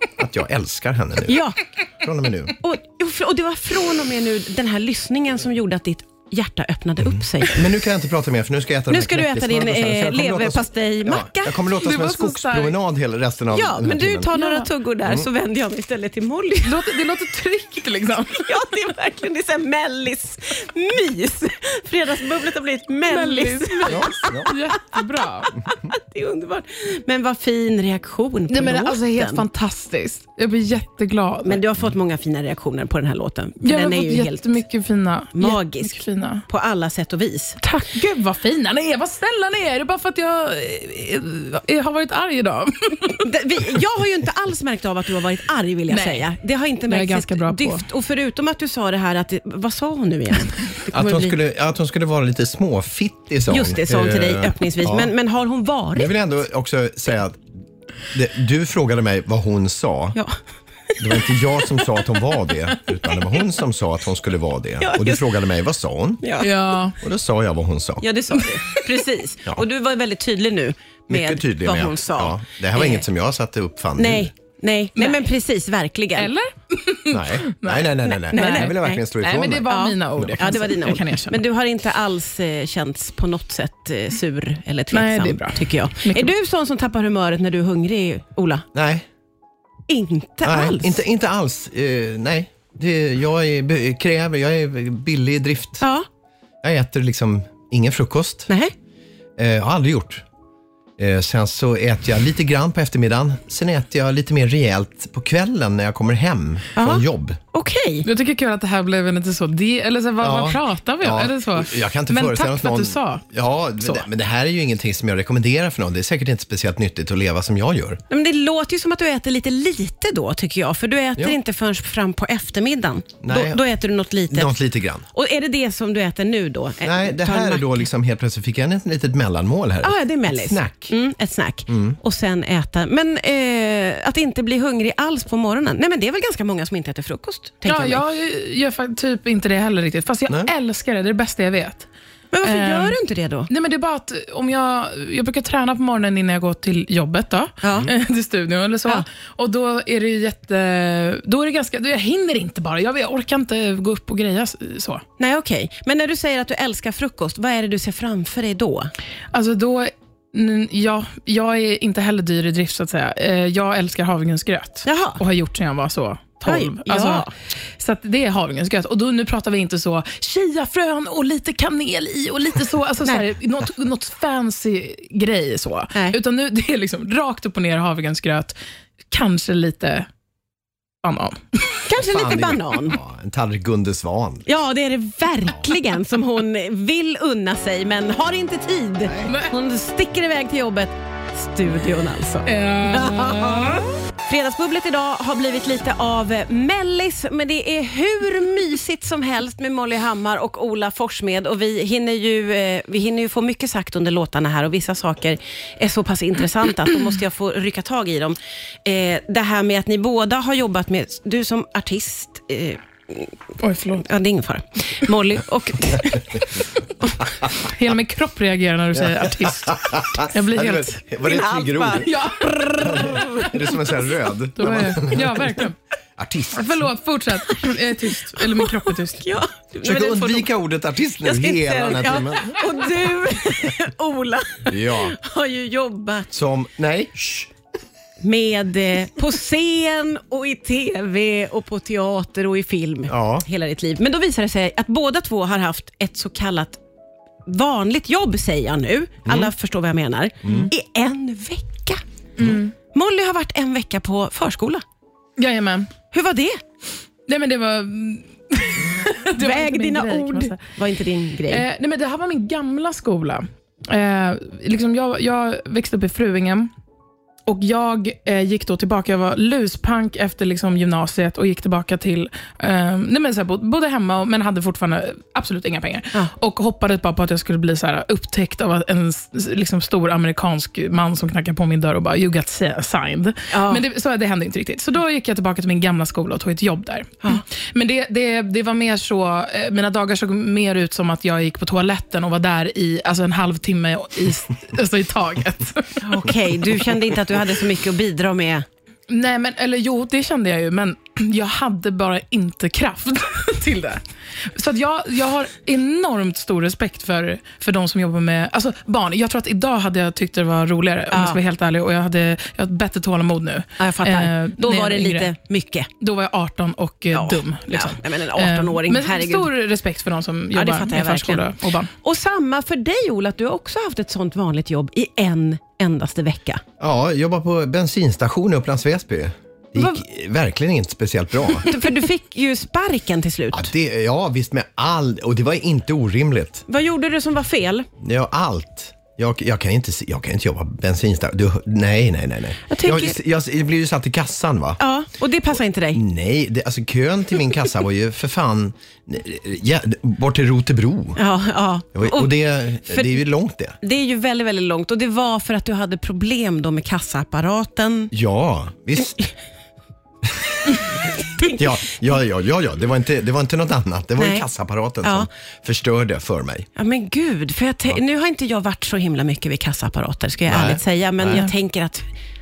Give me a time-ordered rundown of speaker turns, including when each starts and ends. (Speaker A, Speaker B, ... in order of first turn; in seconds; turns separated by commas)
Speaker A: 0.2-1.4, Speaker B: 1.3-1.6, Speaker A: 2.0-2.6, Speaker B: 2.6-7.7, Speaker A: 7.2-14.3, Speaker B: 8.9-11.6, Speaker C: 11.8-12.8, Speaker B: 13.5-16.8, Speaker C: 14.3-14.7, Speaker C: 16.6-18.9, Speaker B: 18.5-25.0, Speaker C: 23.1-25.5, Speaker A: 23.9-24.5, Speaker B: 25.6-29.4, Speaker C: 28.5-31.6, Speaker B: 31.4-34.6, Speaker C: 33.6-36.5, Speaker B: 35.3-37.6, Speaker C: 37.6-43.3, Speaker B: 43.1-51.4, Speaker C: 45.9-46.3, Speaker C: 46.9-47.9, Speaker A: 50.9-55.1, Speaker B: 53.5-56.1, Speaker A: 56.0-57.5, Speaker A: 58.1-60.2, Speaker B: 60.9-62.0, Speaker A: 61.0-66.3, Speaker B: 64.8-65.3, Speaker B: 66.2-66.5, Speaker C: 66.4-67.0, Speaker A: 67.0-68.0, Speaker B: 68.0-73.1, Speaker A: 71.1-74.3, Speaker B: 74.0-76.3, Speaker C: 76.2-81.4, Speaker A: 77.1-80.6, Speaker B: 78.0-79.0, Speaker B: 79.7-88.7, Speaker C: 84.9-86.3, Speaker A: 88.7-89.1, Speaker B: 89.9-91.0, Speaker A: 90.4-95.8, Speaker B: 95.8-96.1, Speaker A: 96.6-98.5, Speaker B: 98.5-98.7, Speaker A: 99.4-100.2, Speaker A: 101.0-107.4, Speaker B: 106.8-108.1, Speaker C: 108.0-113.3, Speaker A: 110.2-118.0, Speaker C: 113.8-114.1, Speaker B: 118.1-124.5, Speaker A: 123.2-123.6, Speaker A: 124.3-125.0, Speaker B: 125.1-127.9, Speaker A: 126.8-130.9, Speaker B: 129.8-138.0, Speaker A: 131.7-132.0, Speaker C: 137.7-141.9, Speaker B: 142.3-143.5, Speaker C: 142.4-143.0, Speaker C: 143.5-155.0, Speaker B: 147.6-147.9, Speaker B: 155.2-158.9, Speaker C: 159.3-167.3, Speaker B: 164.8-165.2, Speaker B: 166.4-167.3, Speaker C: 167.8-178.6, Speaker C: 179.1-180.1, Speaker C: 181.0-181.8, Speaker B: 181.9-183.0, Speaker A: 182.0-184.5, Speaker B: 184.5-213.4, Speaker C: 189.3-189.5, Speaker C: 192.5-193.8, Speaker C: 213.6-214.1, Speaker B: 214.0-217.2, Speaker C: 217.5-221.0, Speaker A: 218.9-222.1, Speaker B: 221.2-223.8, Speaker C: 222.0-223.5, Speaker A: 222.8-225.6, Speaker C: 224.6-225.8, Speaker A: 226.2-226.8, Speaker C: 226.5-229.3, Speaker B: 228.2-230.5, Speaker A: 229.8-232.7, Speaker B: 231.2-236.3, Speaker A: 234.7-235.2, Speaker A: 236.3-237.5, Speaker B: 238.2-246.8, Speaker A: 243.1-243.5, Speaker B: 247.5-252.0, Speaker A: 249.3-249.5, Speaker A: 250.4-250.7, Speaker C: 252.4-252.7, Speaker B: 252.9-254.8, Speaker C: 255.4-255.9, Speaker B: 256.1-256.6, Speaker C: 257.3-260.6, Speaker B: 259.4-261.6, Speaker C: 261.5-266.7, Speaker C: 267.5-296.1, Speaker B: 283.5-283.8, Speaker B: 296.0-298.7, Speaker C: 299.1-315.3, Speaker B: 311.1-311.4, Speaker B: 313.8-315.9, Speaker C: 316.0-321.9, Speaker B: 317.1-319.5, Speaker B: 320.5-326.6, Speaker A: 326.8-331.7, Speaker B: 331.6-333.7, Speaker A: 333.5-336.6, Speaker B: 336.7-337.9, Speaker A: 338.0-344.8, Speaker B: 342.7-343.2, Speaker B: 344.8-346.0, Speaker A: 345.9-351.2, Speaker B: 351.2-352.3, Speaker A: 351.9-353.8, Speaker B: 352.9-353.2, Speaker B: 353.8-358.1, Speaker A: 358.1-359.2, Speaker A: 360.2-360.6, Speaker B: 361.1-361.9, Speaker A: 361.6-366.7, Speaker B: 364.2-364.4, Speaker B: 366.8-372.1, Speaker A: 370.5-371.5